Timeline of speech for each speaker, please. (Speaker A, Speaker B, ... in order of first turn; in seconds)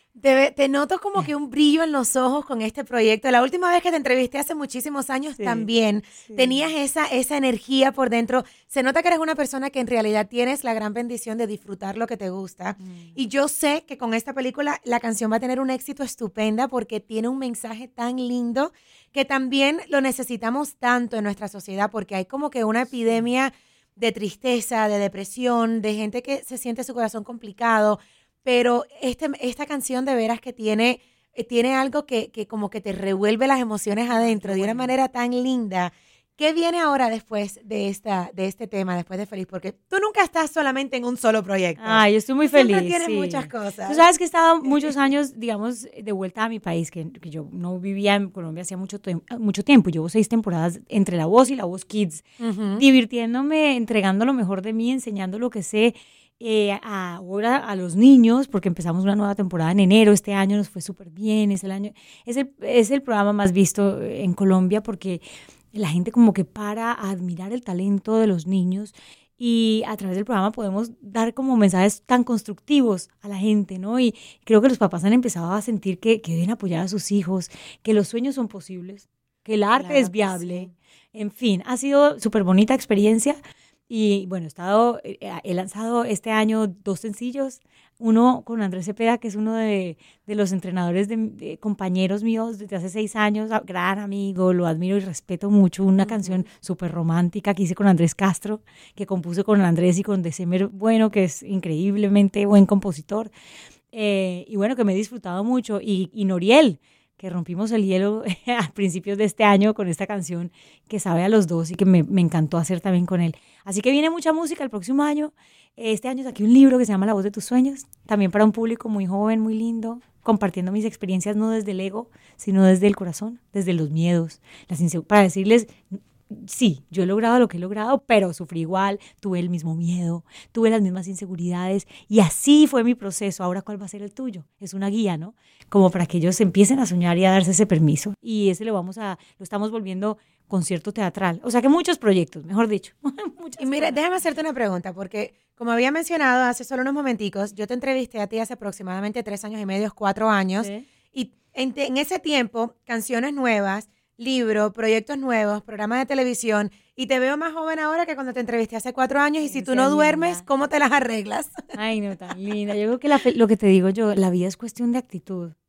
Speaker A: 0.1-44.0, 52.4-52.8, 79.7-80.7, 96.0-96.4, 143.6-161.7
Speaker B: 5.4-5.7, 6.2-6.6, 12.8-13.2, 34.1-34.9, 41.8-52.2, 52.8-103.3, 103.9-125.8, 126.3-144.0, 150.6-150.8, 159.4-160.4, 161.7-165.5